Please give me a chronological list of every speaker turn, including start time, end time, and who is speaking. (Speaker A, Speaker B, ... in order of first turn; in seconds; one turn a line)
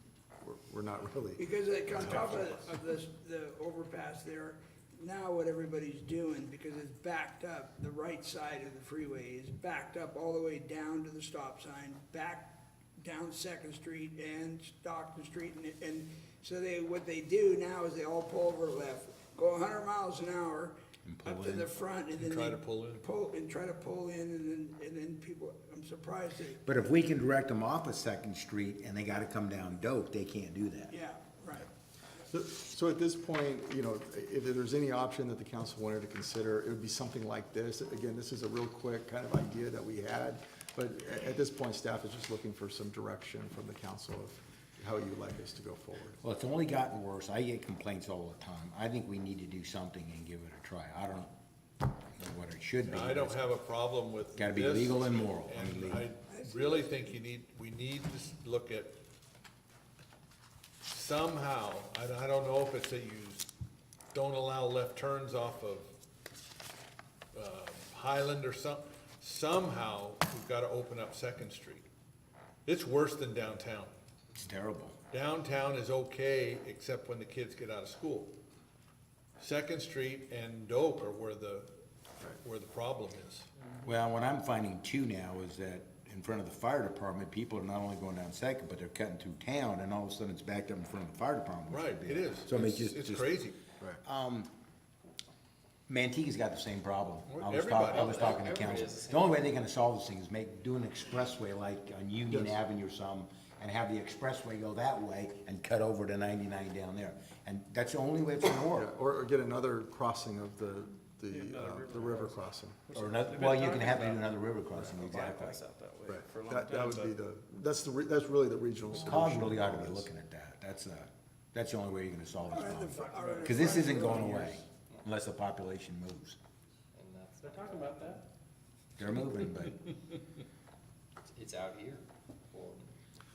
Speaker A: 0.4-2.6
Speaker B: 1.4-26.6
Speaker C: 21.0-21.7
Speaker D: 22.2-23.0
Speaker C: 26.6-30.9
Speaker B: 30.9-31.7
Speaker A: 32.3-46.2
Speaker C: 46.2-51.3
Speaker C: 52.1-53.4
Speaker D: 52.9-59.0
Speaker C: 54.4-56.0
Speaker B: 56.3-57.1
Speaker D: 60.9-63.5
Speaker D: 64.1-65.9
Speaker D: 67.3-71.8
Speaker D: 72.7-73.9
Speaker C: 74.4-75.0
Speaker D: 75.1-78.3
Speaker D: 79.4-81.7
Speaker D: 82.4-83.5
Speaker C: 83.8-94.5
Speaker D: 91.7-93.6
Speaker C: 95.9-108.9
Speaker D: 97.3-98.8
Speaker E: 97.8-99.4
Speaker A: 102.3-102.6
Speaker A: 108.8-112.8
Speaker F: 111.3-117.2
Speaker C: 112.9-115.6
Speaker A: 116.0-120.1
Speaker C: 119.0-126.4
Speaker B: 122.5-124.3
Speaker F: 123.0-124.6
Speaker E: 126.9-128.1
Speaker F: 127.4-128.2
Speaker C: 129.0-129.8
Speaker E: 131.3-132.9